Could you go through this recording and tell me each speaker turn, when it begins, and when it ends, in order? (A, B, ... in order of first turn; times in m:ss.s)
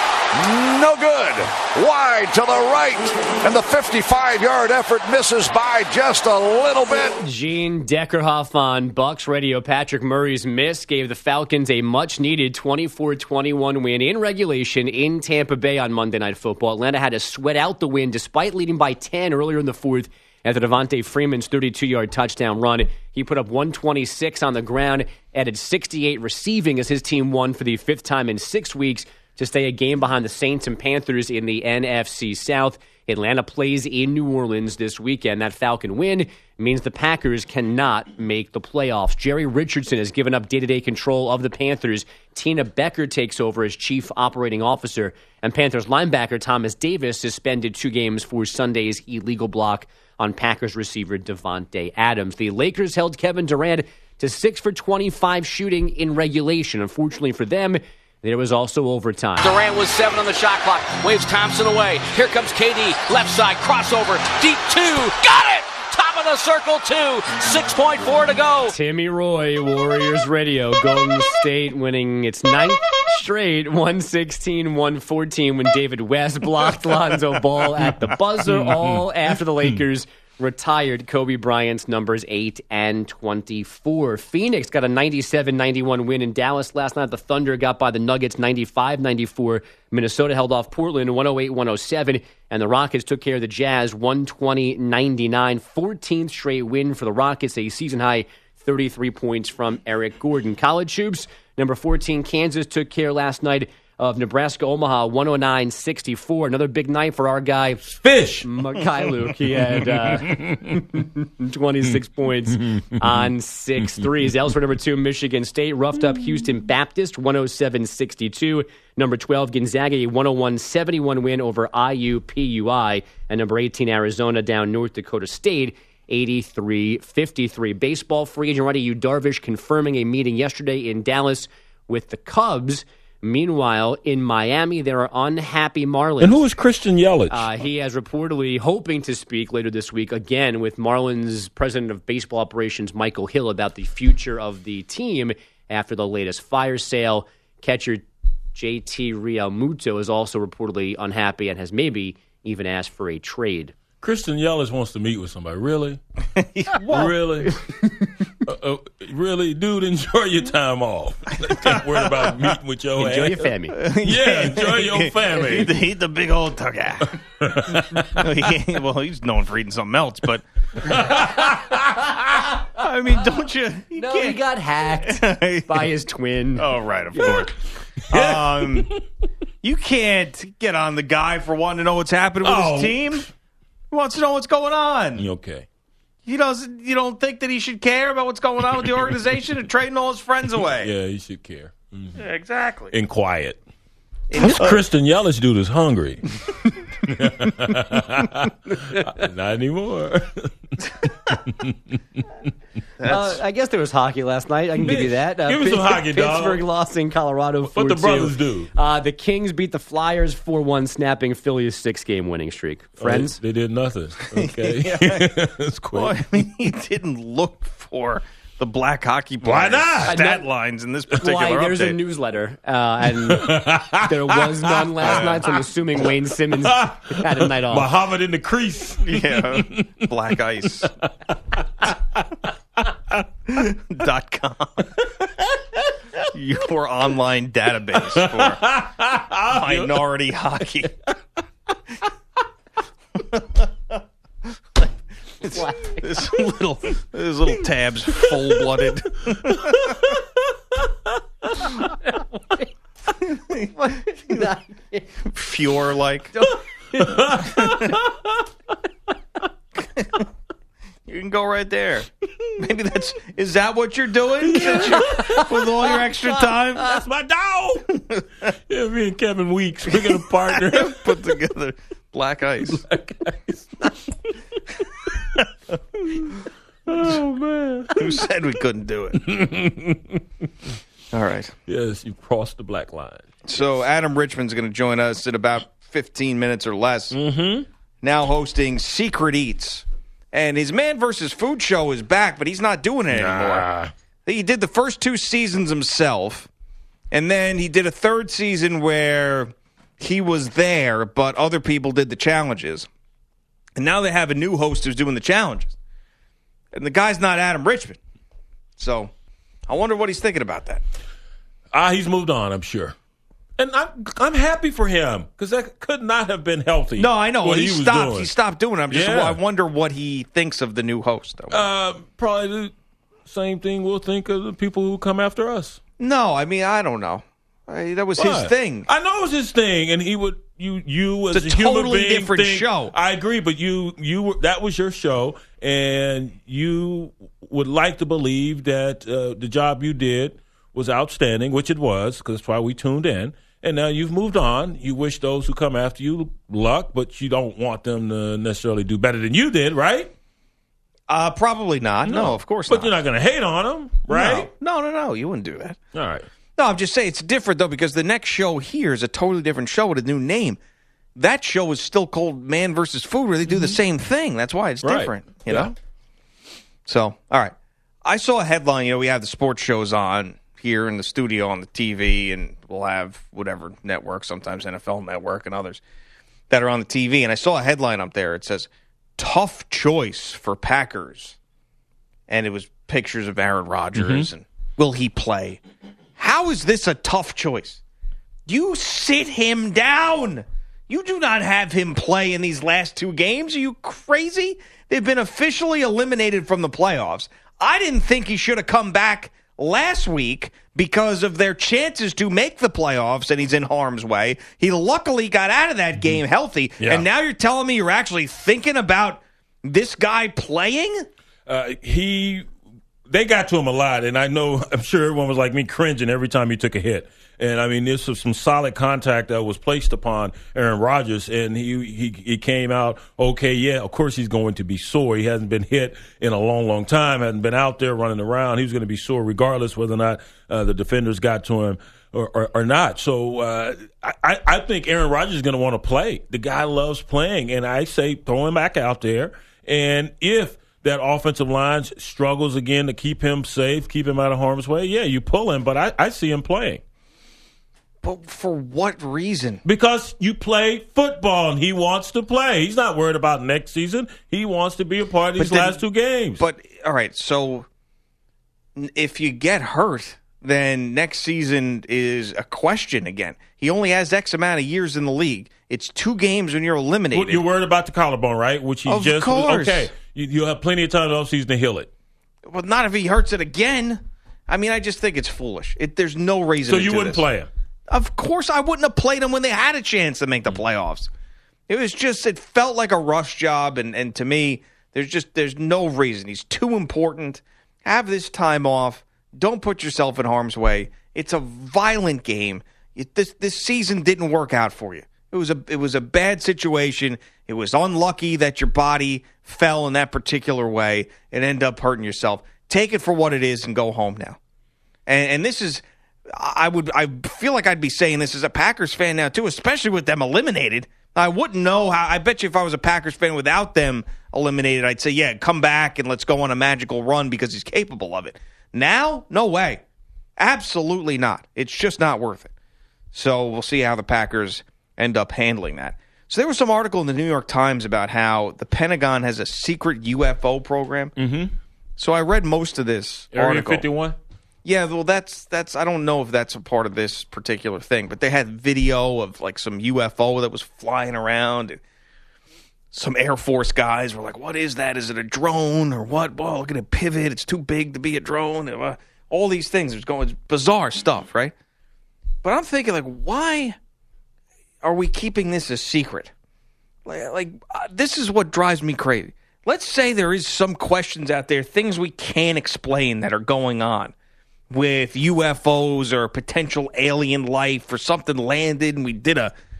0:00.3-0:07.2 A
0:07.2-0:59.5 B
0:59.4-1:08.7 C
1:08.6-2:16.4 B
1:48.0-1:48.5 D
1:50.2-1:50.6 D
2:16.2-2:17.5 D
2:17.3-2:28.0 B
2:28.5-2:33.7 B
2:34.0-2:36.0 D
2:36.4-2:37.1 E
2:36.8-2:37.6 D
2:38.4-2:43.5 D
2:41.4-2:42.5 E
2:43.0-2:43.8 B
2:43.7-2:51.3 E
2:44.0-2:45.8 D
2:47.4-2:48.2 D
2:50.8-2:52.0 D
2:52.7-2:54.4 E
2:53.9-2:57.4 B
2:55.0-2:55.9 E
2:56.6-2:57.5 E
2:58.1-2:58.9 E
2:58.1-2:59.0 D
2:59.6-3:03.3 E
3:02.4-3:03.3 D
3:03.9-3:05.2 E
3:05.2-3:05.6 D
3:06.2-3:10.9 E
3:10.8-3:12.2 D
3:12.2-3:12.9 E
3:12.9-3:13.6 D
3:14.3-3:14.8 E
3:14.4-3:16.3 D
3:17.0-3:20.5 D
3:21.0-3:21.7 D
3:23.0-3:23.4 E
3:23.0-3:33.4 B
3:24.8-3:26.6 D
3:27.7-3:28.7 D
3:33.0-3:36.1 D
3:34.4-3:35.3 E
3:35.8-3:42.0 E
3:39.4-3:40.2 D
3:40.0-3:40.5 B
3:41.1-3:47.9 B
3:43.3-3:45.4 D
3:46.6-3:49.9 D
3:49.0-3:50.9 E
3:53.5-3:55.0 E
3:56.2-3:58.7 E
3:58.0-4:00.0 D
3:59.5-4:00.9 E
4:03.2-4:04.0 E
4:05.4-4:10.1 E
4:05.5-4:06.1 B
4:09.6-4:10.1 D
4:13.2-4:13.8 E
4:13.8-4:15.1 B
4:15.2-4:16.3 E
4:16.4-4:17.2 B
4:17.0-4:18.3 D
4:17.4-4:18.0 E
4:19.8-4:20.2 E
4:21.0-4:27.0 E
4:24.4-4:25.5 D
4:25.1-4:25.4 B
4:26.8-4:27.9 D
4:28.7-4:31.4 D
4:29.9-4:32.8 E
4:32.6-4:33.9 D
4:36.2-4:38.2 D
4:37.9-4:39.2 E
4:39.2-4:40.2 D
4:41.1-4:41.5 E
4:41.7-4:43.2 D
4:43.4-4:47.2 E
4:47.1-4:47.6 D
4:48.0-4:53.7 E
4:53.1-4:53.9 D
4:54.2-4:56.5 E
4:57.1-5:02.9 E
5:03.8-5:05.7 E
5:06.7-5:08.0 E
5:08.8-5:09.1 E
5:09.7-5:10.8 E
5:11.7-5:12.9 D
5:13.6-5:18.3 D
5:17.0-5:21.7 E
5:18.9-5:19.4 D
5:21.5-5:22.7 D
5:23.2-5:25.8 D
5:26.0-5:28.9 E
5:28.2-5:50.1 D
5:31.3-5:32.9 E
5:51.1-5:52.9 E
5:52.0-5:54.5 D
5:54.1-5:55.8 E
5:55.9-5:56.2 D
5:56.6-6:00.6 E
6:01.2-6:05.7 E
6:03.4-6:03.8 D
6:04.8-6:05.7 D
6:06.8-6:07.5 E
6:08.0-6:15.8 E
6:16.5-6:21.4 E
6:22.3-6:25.6 E
6:24.0-6:24.2 D
6:26.2-6:27.8 E
6:28.5-6:51.1 E
6:46.8-6:47.0 D
6:51.5-6:52.4 D
6:53.1-7:26.8 D
7:28.0-7:29.6 E
7:29.6-7:36.4 D
7:35.4-7:35.8 E
7:36.4-7:37.6 E
7:38.8-7:47.4 E
7:47.1-7:51.9 D
7:48.9-7:49.9 E
7:52.5-7:57.2 E
7:56.7-7:57.5 D
7:57.9-8:01.1 E
8:01.7-8:24.4 E
8:25.1-8:39.8 E
8:40.4-8:42.5 E
8:43.1-8:51.1 E
8:51.2-8:51.5 D
8:52.0-8:53.8 E
8:53.3-8:54.2 D
8:54.6-9:01.8 E
9:02.9-9:11.5 E
9:12.4-9:13.8 E
9:14.8-9:16.3 E
9:17.0-9:24.1 E
9:24.7-9:29.5 E